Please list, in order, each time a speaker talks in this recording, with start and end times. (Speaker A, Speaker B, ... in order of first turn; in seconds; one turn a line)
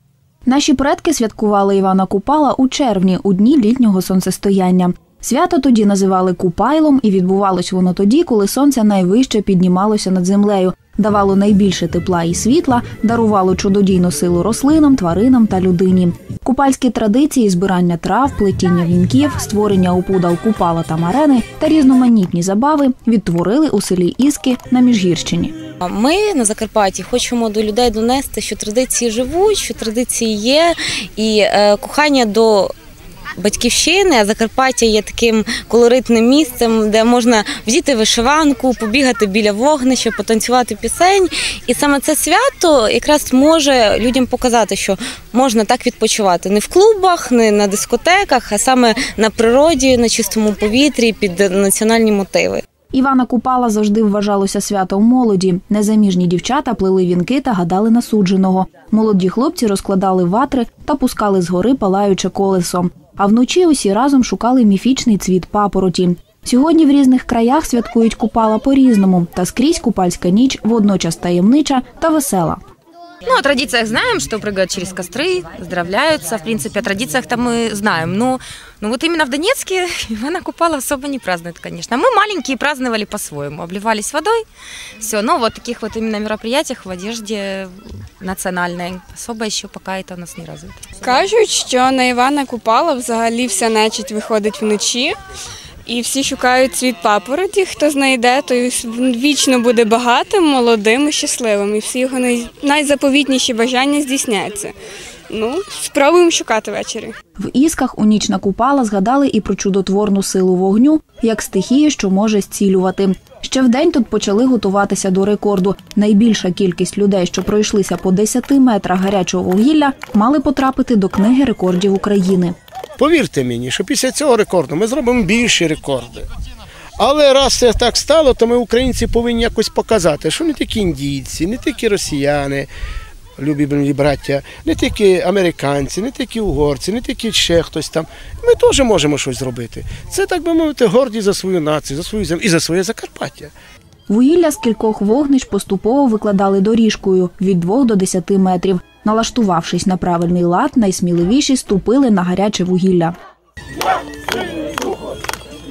Speaker A: 0.5-25.5
Speaker B: 25.8-32.7
Speaker B: 33.4-52.6
Speaker A: 52.9-72.6
Speaker C: 73.2-84.4
Speaker C: 85.0-91.2
Speaker D: 91.0-95.2
Speaker D: 95.8-104.7
Speaker D: 105.3-107.1
Speaker A: 107.4-122.5
Speaker E: 123.0-126.2
Speaker E: 127.0-132.7
Speaker E: 133.4-143.5
Speaker A: 144.1-153.1